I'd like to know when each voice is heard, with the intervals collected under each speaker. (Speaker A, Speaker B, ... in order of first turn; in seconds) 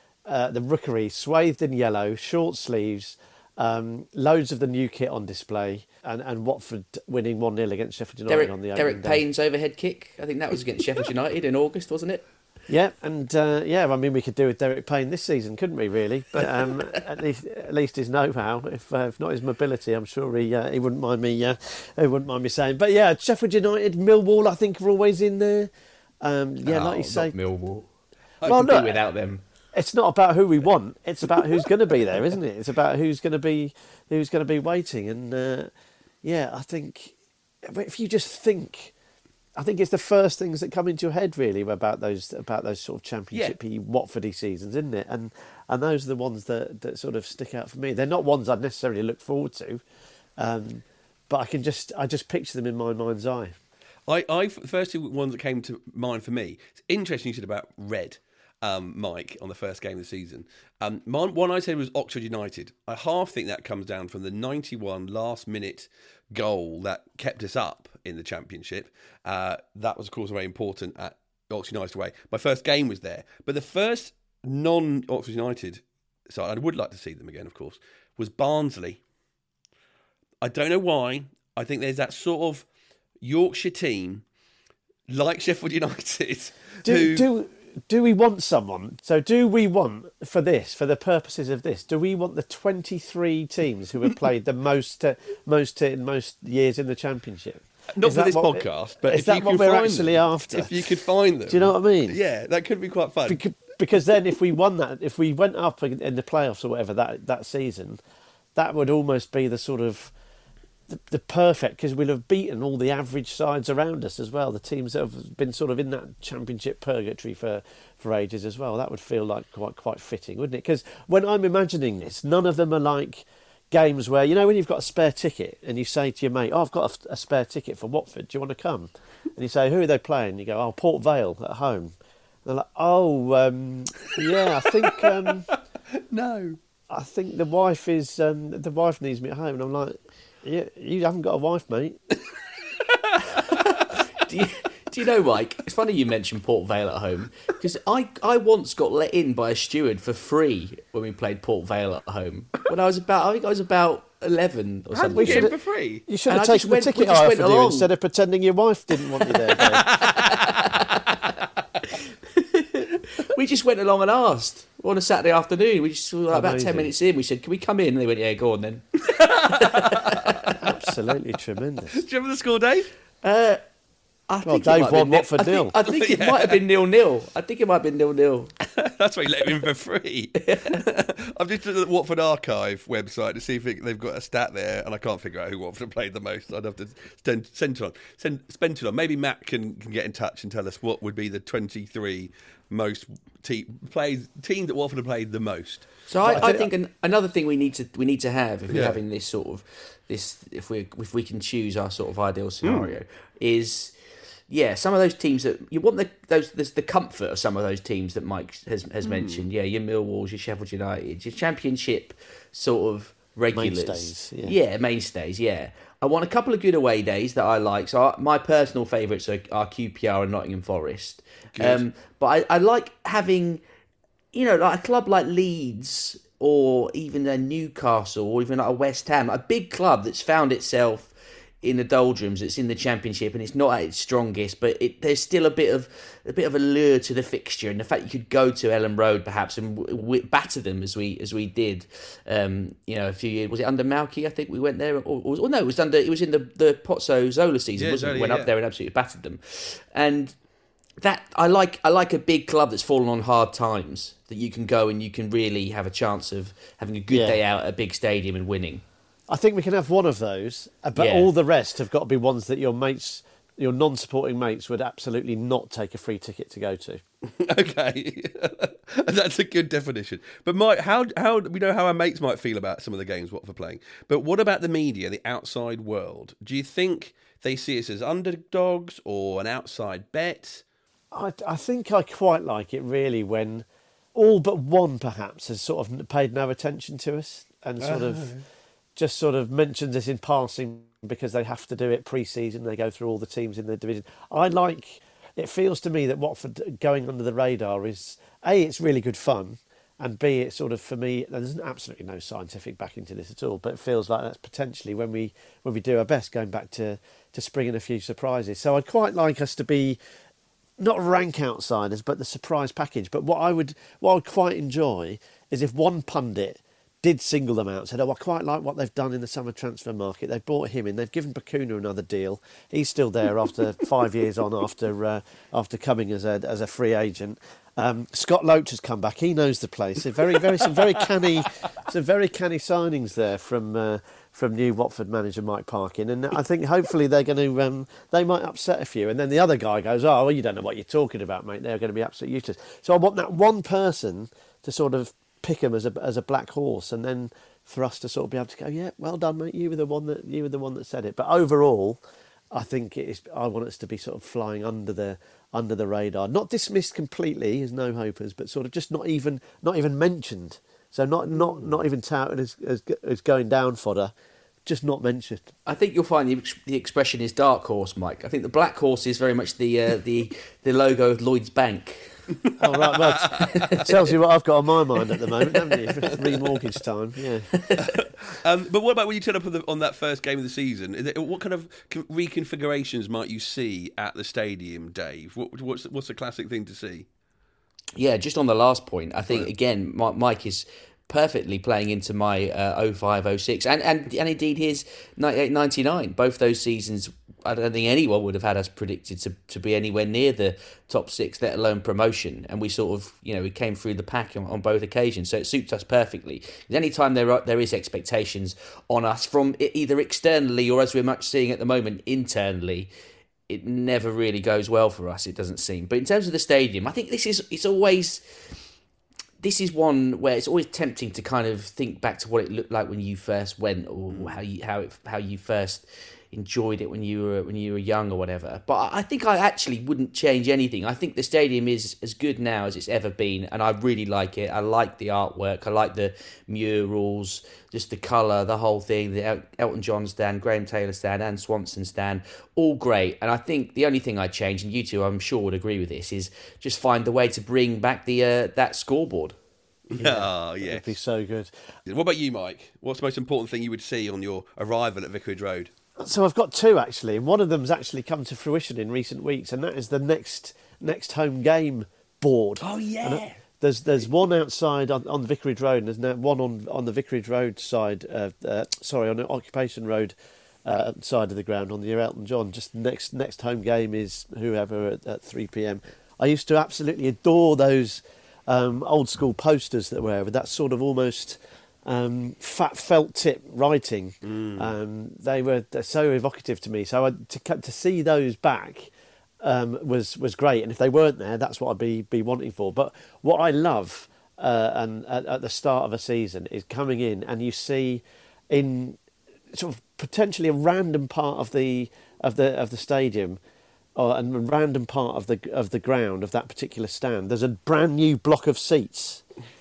Speaker A: 0.2-9.2, 12.7-25.7, 26.2-27.3, 28.4-29.0, 29.7-35.7, 36.2-38.9, 39.6-49.8, 50.4-53.5, 86.8-102.2, 103.3-108.0, 108.5-110.1, 110.9-131.9, 132.4-135.5, 136.9-142.0, 155.1-159.8, 166.3-166.9, 170.6-172.0, 174.4-175.7, 196.2-196.7, 213.5-214.5, 257.1-257.4, 259.3-267.0, 281.1-288.3, 288.9-310.0, 310.8-364.1, 364.6-365.5, 372.6-377.5, 450.0-451.5, 456.0-499.0, 499.5-503.4, 503.9-509.2
Speaker B: 8.3-12.2, 26.6-27.9, 28.4-29.4, 143.2-155.5, 156.3-157.9, 159.6-170.7, 173.2-173.6, 174.3-178.5, 180.4-180.8, 196.1-203.9, 204.5-223.6, 224.3-250.3, 251.0-258.8, 260.9-261.3, 365.6-372.1, 373.3-374.0, 377.5-377.9, 387.9-412.9, 413.5-418.4, 419.4-449.4
Speaker C: 54.1-79.0, 80.4-82.7, 83.2-84.2, 85.1-87.2, 97.9-103.4, 134.9-136.6, 142.8-143.7, 154.9-156.0, 159.5-160.6, 169.0-170.6, 171.9-172.9, 175.8-176.6, 178.6-196.5, 198.7-199.0, 202.6-202.9, 209.0-209.4, 221.5-221.8, 247.8-248.5, 267.3-280.6, 287.8-288.4, 372.9-373.7, 376.0-376.4, 377.8-387.1, 424.1-424.4, 449.9-450.9, 451.9-455.7, 462.6-463.4, 484.2-484.7